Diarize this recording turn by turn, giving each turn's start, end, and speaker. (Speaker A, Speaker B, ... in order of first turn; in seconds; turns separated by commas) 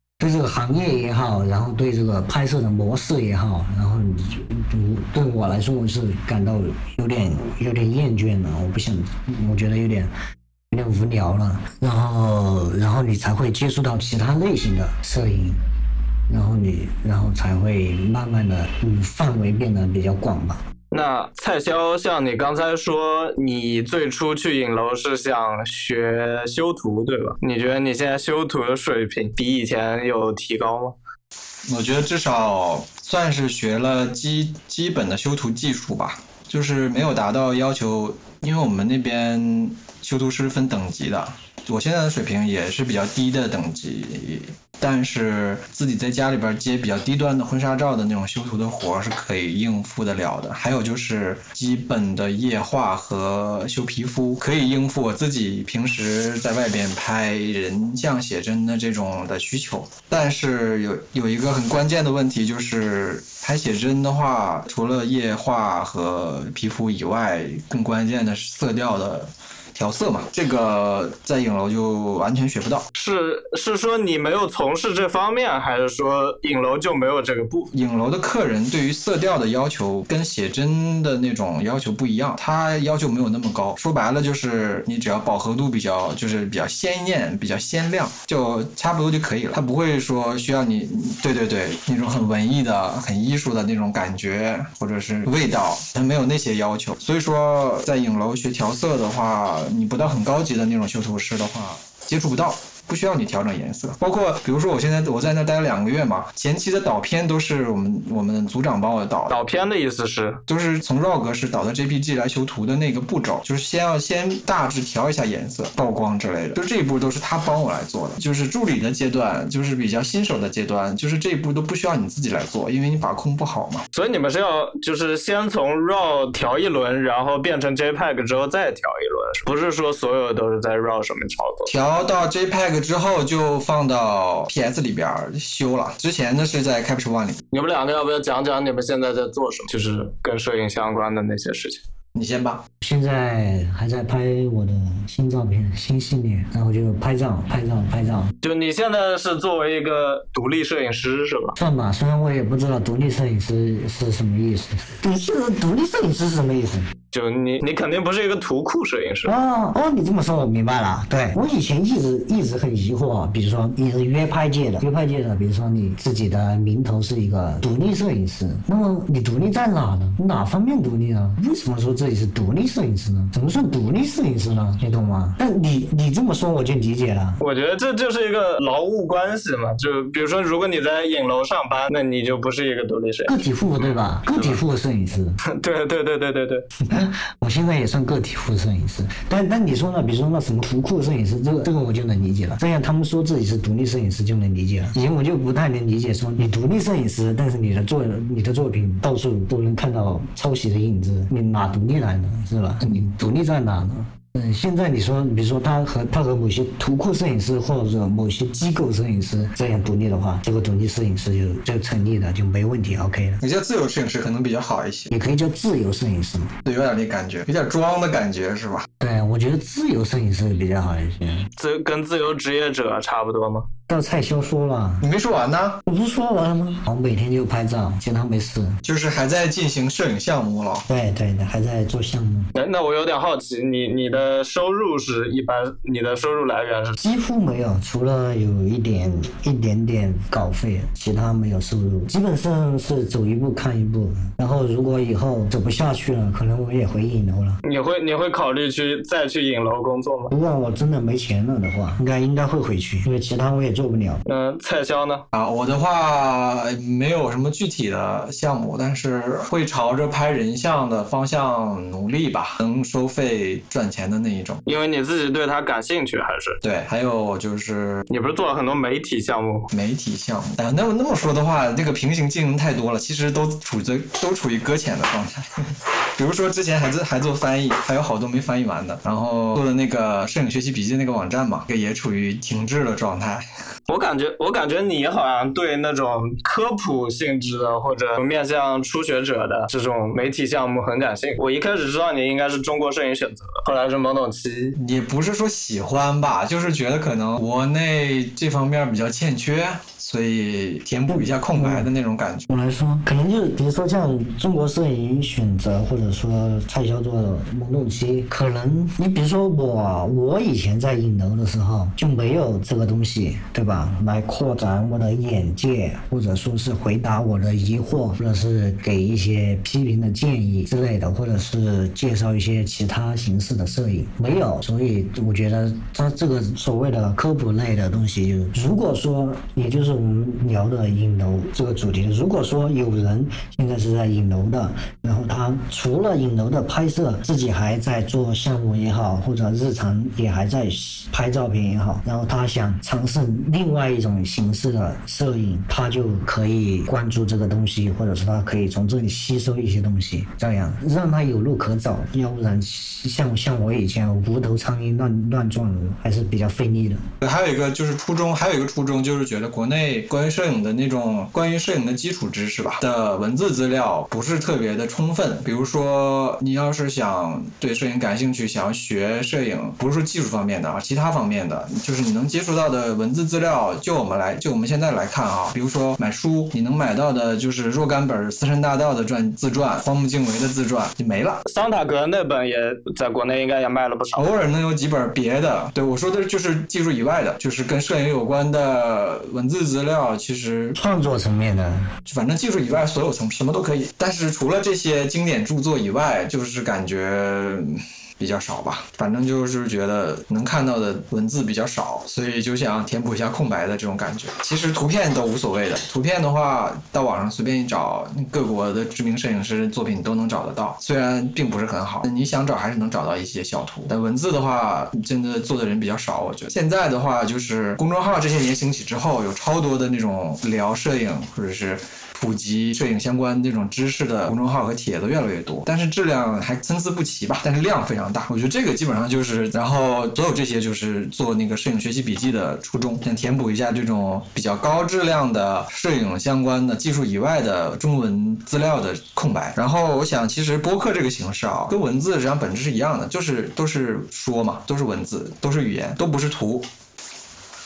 Speaker A: 0.2-10.1, Speaker A: 10.7-15.6, Speaker A: 16.3-20.6, Speaker B: 20.9-30.9, Speaker C: 31.7-72.8, Speaker B: 72.9-77.7, Speaker C: 77.7-109.3, Speaker B: 109.3-110.4, Speaker C: 110.5-123.8, Speaker B: 123.9-131.7, Speaker C: 131.7-137.4, Speaker B: 137.5-141.8, Speaker C: 142.1-142.6, Speaker A: 142.8-148.3, Speaker B: 148.4-151.6, Speaker A: 151.6-156.9, Speaker B: 157.1-159.3, Speaker A: 159.2-177.4, Speaker B: 177.4-183.3, Speaker A: 183.3-185.4, Speaker B: 185.4-186.6, Speaker A: 186.8-213.4, Speaker C: 213.4-215.1, Speaker A: 215.1-216.5, Speaker C: 216.6-218.9, Speaker A: 219.0-221.5, Speaker B: 221.6-223.7, Speaker A: 223.9-225.0, Speaker C: 225.0-225.8, Speaker A: 225.8-228.8, Speaker C: 228.8-230.9, Speaker A: 230.9-232.5, Speaker B: 232.5-237.0, Speaker A: 237.0-247.6, Speaker B: 247.6-250.3, Speaker A: 250.3-254.2, Speaker B: 254.2-255.2, Speaker C: 255.3-264.6, Speaker B: 264.6-266.6, Speaker C: 266.6-268.1, Speaker B: 268.1-269.7, Speaker C: 269.7-283.4, Speaker B: 283.9-294.8, Speaker C: 294.8-302.5, Speaker A: 301.1-301.9, Speaker A: 302.5-357.0, Speaker C: 357.2-381.4, Speaker B: 381.4-384.3, Speaker C: 384.1-390.8, Speaker A: 390.8-391.9, Speaker C: 392.0-446.6